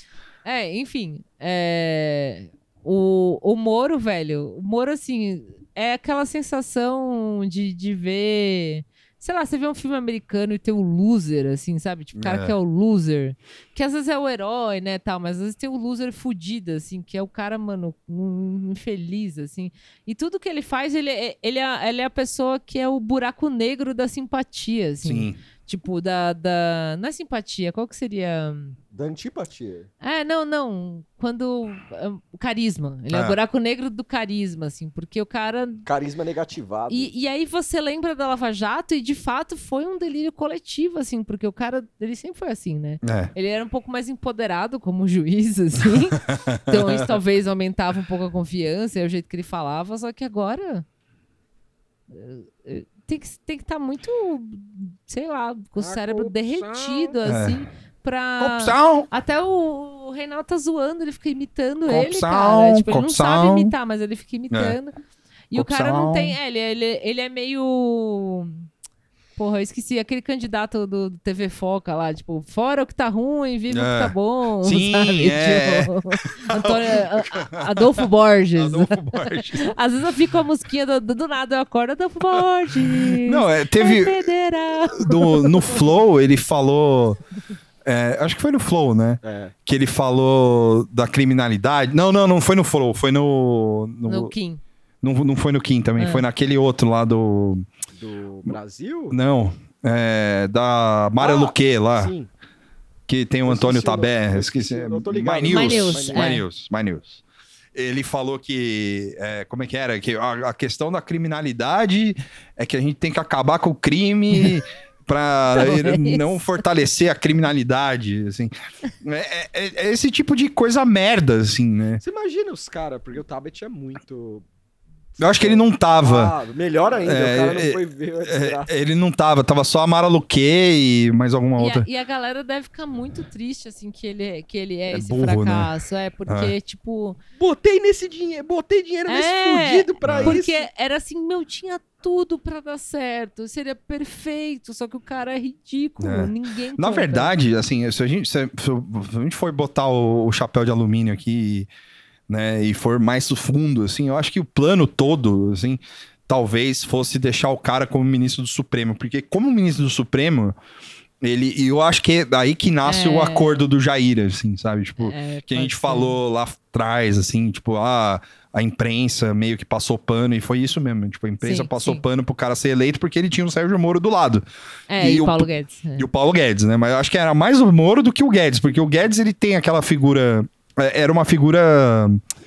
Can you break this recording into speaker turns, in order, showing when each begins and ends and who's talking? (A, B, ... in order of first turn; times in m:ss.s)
0:00.4-0:28.8 A
0:12.1-0:12.5 B
0:25.0-0:25.4 B
0:28.9-0:29.9 C
0:30.0-0:35.8 A
0:33.1-0:33.4 B
0:35.8-0:37.1 C
0:36.9-0:50.8 A
0:43.0-0:43.3 B
0:46.2-0:47.1 B
0:52.1-1:04.9 A
0:55.8-0:57.2 C
0:57.2-0:57.6 B
0:58.4-0:59.1 B
1:01.9-1:03.7 B
1:04.5-1:04.8 B
1:05.5-1:08.6 A
1:05.5-1:06.4 B
1:09.4-1:25.9 A
1:13.7-1:19.7 B
1:22.4-1:24.3 B
1:24.9-1:27.2 B
1:27.8-1:34.3 B
1:29.2-1:29.5 C
1:34.0-1:34.6 A
1:35.0-1:37.7 B
1:36.0-1:36.2 A
1:37.9-1:39.2 C
1:39.1-1:42.1 B
1:41.2-1:42.3 C
1:43.1-1:47.2 B
1:43.4-1:46.4 C
1:45.5-1:46.4 A
1:47.7-2:02.0 B
1:55.5-1:56.5 A
2:02.0-2:04.4 C
2:05.2-2:08.7 C
2:05.2-2:06.3 B
2:07.0-2:11.8 B
2:11.6-2:17.2 A
2:14.9-2:15.7 B
2:16.3-2:16.5 B
2:17.4-2:20.6 C
2:19.1-2:27.3 A
2:20.0-2:20.4 B
2:26.0-2:31.7 B
2:32.3-2:40.6 B
2:41.2-2:54.4 B
2:42.8-2:43.5 A
2:45.0-2:46.2 A
2:51.4-2:52.0 A
2:54.9-2:56.1 A
2:55.0-3:02.2 B